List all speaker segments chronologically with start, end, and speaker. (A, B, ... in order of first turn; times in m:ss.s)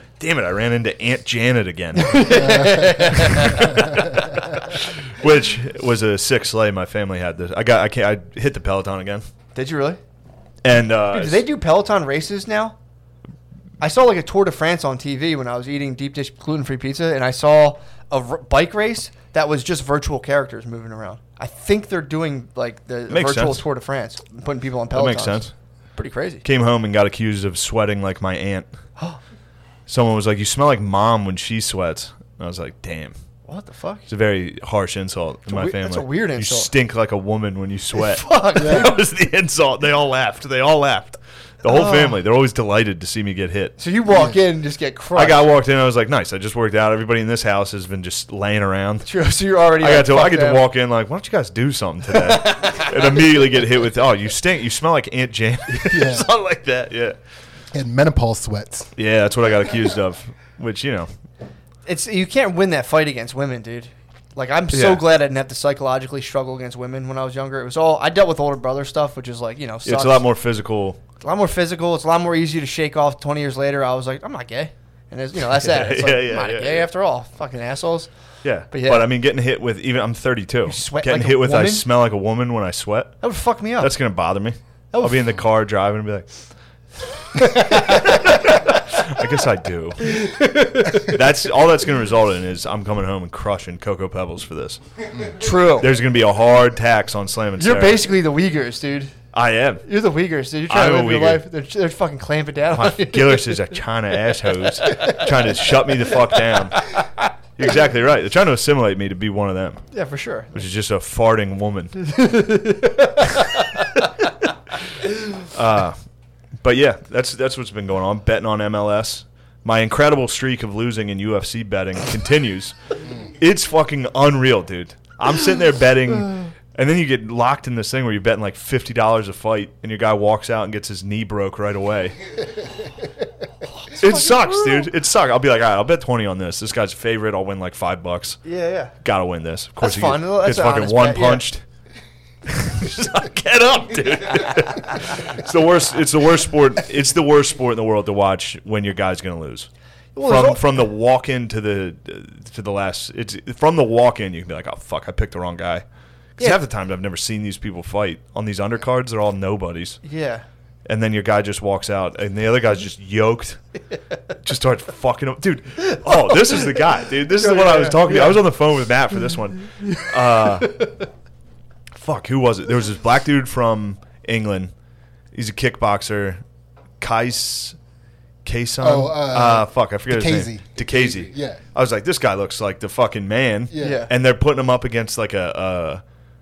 0:00.2-0:02.3 A
0:01.9-0:04.4 B
0:02.2-0:04.3 C
0:03.3-0:09.2 A
0:09.5-0:10.0 B
0:10.6-0:11.4 A
0:11.1-0:12.8 B
0:13.8-0:26.4 B
0:23.1-0:23.6 A
0:24.9-0:25.5 A
0:26.4-0:28.7 A
0:29.9-0:33.1 A
0:33.4-0:34.1 B
0:34.1-0:43.8 A
0:35.5-0:36.7 B
0:37.9-0:38.9 B
0:38.6-0:38.9 C
0:41.6-0:42.2 B
0:43.8-0:45.4 B
0:44.1-0:44.4 C
0:45.2-0:49.1 A
0:49.0-0:50.6 B
0:49.8-0:57.2 A
0:52.1-0:53.4 B
0:55.8-0:56.3 C
0:57.7-0:58.9 C
0:59.0-1:01.1 A
1:01.8-1:10.3 B
1:04.7-1:05.0 A
1:09.8-1:11.0 A
1:11.2-1:18.1 B
1:15.5-1:16.9 A
1:18.4-1:23.2 A
1:18.7-1:19.1 B
1:20.6-1:21.9 B
1:23.2-1:23.9 B
1:23.8-1:26.4 A
1:24.9-1:25.4 B
1:27.3-1:30.2 A
1:27.4-1:28.6 B
1:30.1-1:31.2 B
1:31.0-1:34.8 A
1:35.4-1:35.9 B
1:35.8-1:38.0 A
1:37.6-1:39.2 B
1:39.3-1:39.8 A
1:39.8-1:43.6 B
1:40.7-1:41.4 A
1:42.7-1:46.8 A
1:47.6-1:49.8 A
1:49.9-1:50.6 B
1:50.5-1:52.0 A
1:52.0-1:54.1 B
1:55.5-1:56.0 A
1:56.6-2:02.7 A
2:03.4-2:12.2 A
2:13.7-2:14.9 B
2:13.9-2:18.4 A
2:18.4-2:18.9 B
2:19.0-2:21.6 A
2:19.8-2:21.5 B
2:22.4-2:29.7 A
2:30.1-2:30.6 B
2:30.2-2:35.8 A
2:36.4-2:40.0 A
2:40.0-2:40.4 B
2:40.8-2:43.6 A
2:44.4-2:50.8 A
2:47.3-2:48.4 B
2:50.5-2:50.8 B
2:51.9-2:54.7 A
2:55.3-2:56.4 A
2:57.0-2:57.8 A
2:58.4-3:06.0 A
2:58.8-3:01.6 C
3:03.7-3:04.0 C
3:03.8-3:04.1 B